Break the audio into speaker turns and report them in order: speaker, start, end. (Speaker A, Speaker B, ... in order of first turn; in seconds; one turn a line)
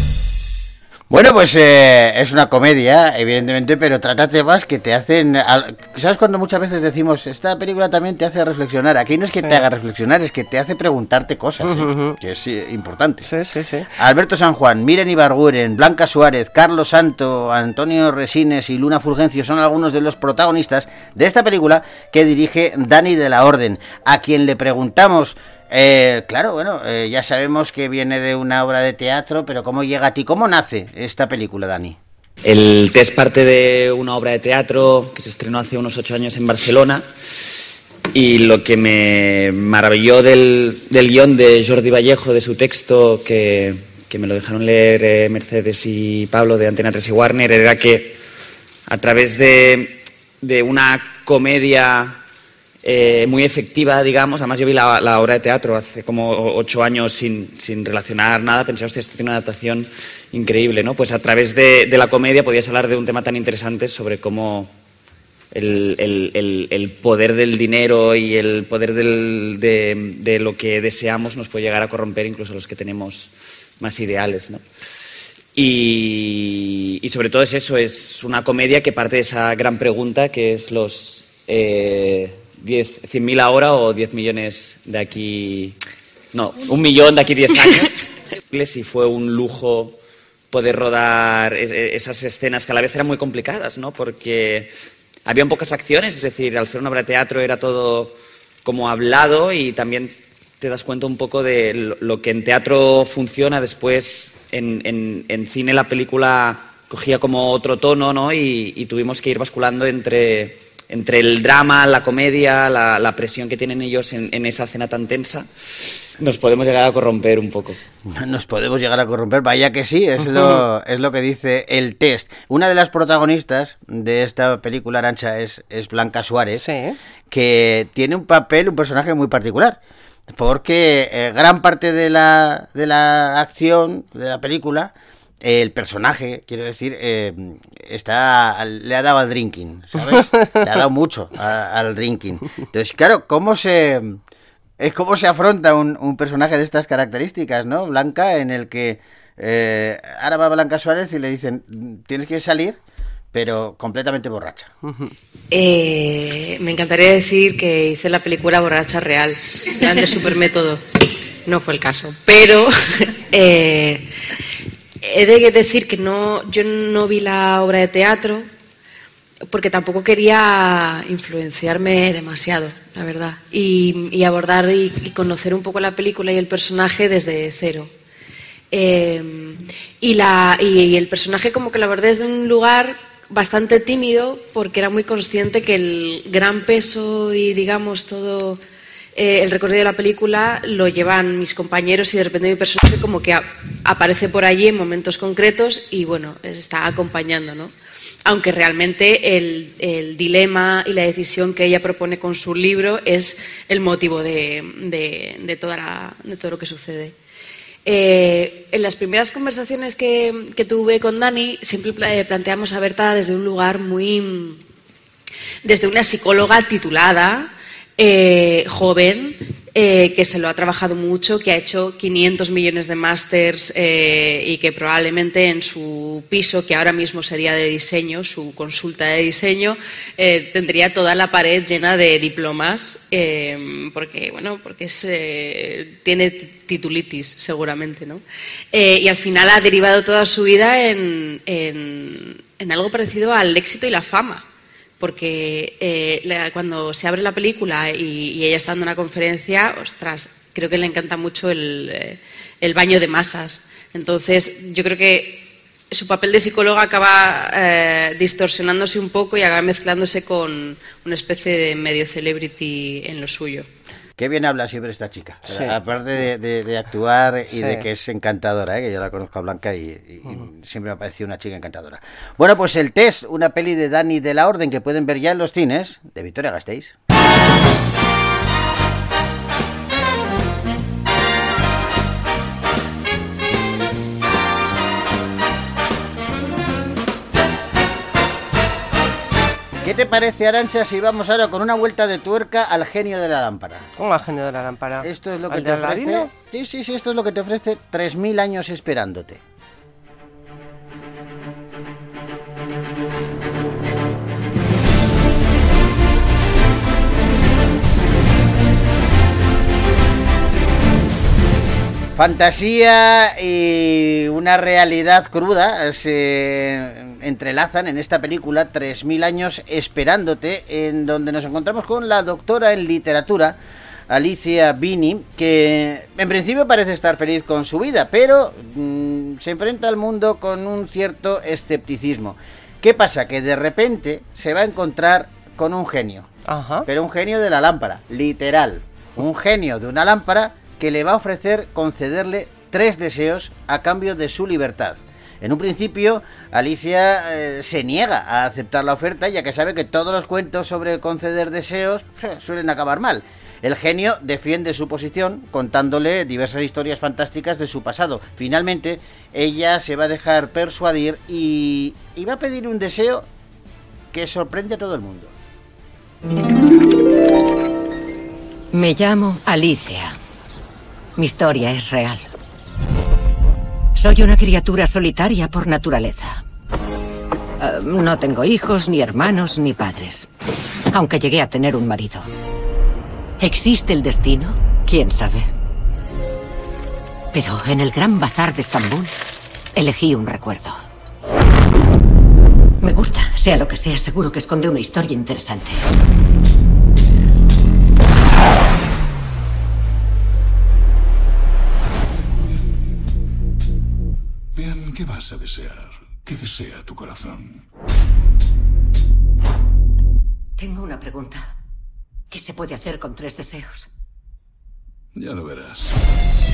Speaker A: 1.1-13.3
Speaker B: 11.6-12.2
Speaker B: 13.2-13.9
Speaker A: 14.0-32.0
Speaker C: 32.4-37.0
Speaker C: 38.1-48.2
Speaker C: 48.9-52.2
Speaker C: 52.8-64.7
Speaker C: 65.5-74.6
Speaker C: 75.5-85.8
Speaker C: 86.3-90.0
Speaker C: 90.5-94.7
Speaker C: 95.2-115.5
Speaker C: 116.2-117.8
Speaker A: 118.0-126.6
Speaker B: 126.5-127.0
Speaker A: 127.3-144.2
Speaker A: 144.8-152.8
Speaker A: 153.3-154.7
Speaker B: 154.8-155.1
Speaker D: 155.5-160.8
Speaker D: 161.4-164.1
Speaker D: 165.0-168.5
Speaker D: 169.5-177.9
Speaker D: 178.7-188.6
Speaker D: 189.1-197.7
Speaker D: 198.2-207.1
Speaker D: 207.8-214.6
Speaker D: 215.6-238.2
Speaker D: 238.7-244.4
Speaker D: 245.0-263.7
Speaker A: 264.2-276.9
Speaker B: 265.4-265.7
Speaker B: 267.6-267.8
Speaker A: 289.8-293.9
Speaker B: 294.0-296.3
Speaker A: 295.0-299.4
Speaker A: 312.1-323.6
Speaker A: 324.1-336.3
Speaker B: 336.5-336.9
Speaker A: 336.9-363.3
Speaker A: 364.1-365.3
Speaker E: 368.7-370.1
Speaker E: 371.2-372.3
Speaker E: 373.9-376.4
Speaker E: 377.6-380.3
Speaker E: 380.9-382.3
Speaker E: 383.4-385.5
Speaker E: 387.3-389.1
Speaker E: 389.8-390.8
Speaker E: 392.8-395.8
Speaker F: 402.4-402.8
Speaker F: 404.5-407.6
Speaker E: 410.6-411.5
Speaker E: 412.3-413.9
Speaker F: 415.1-415.9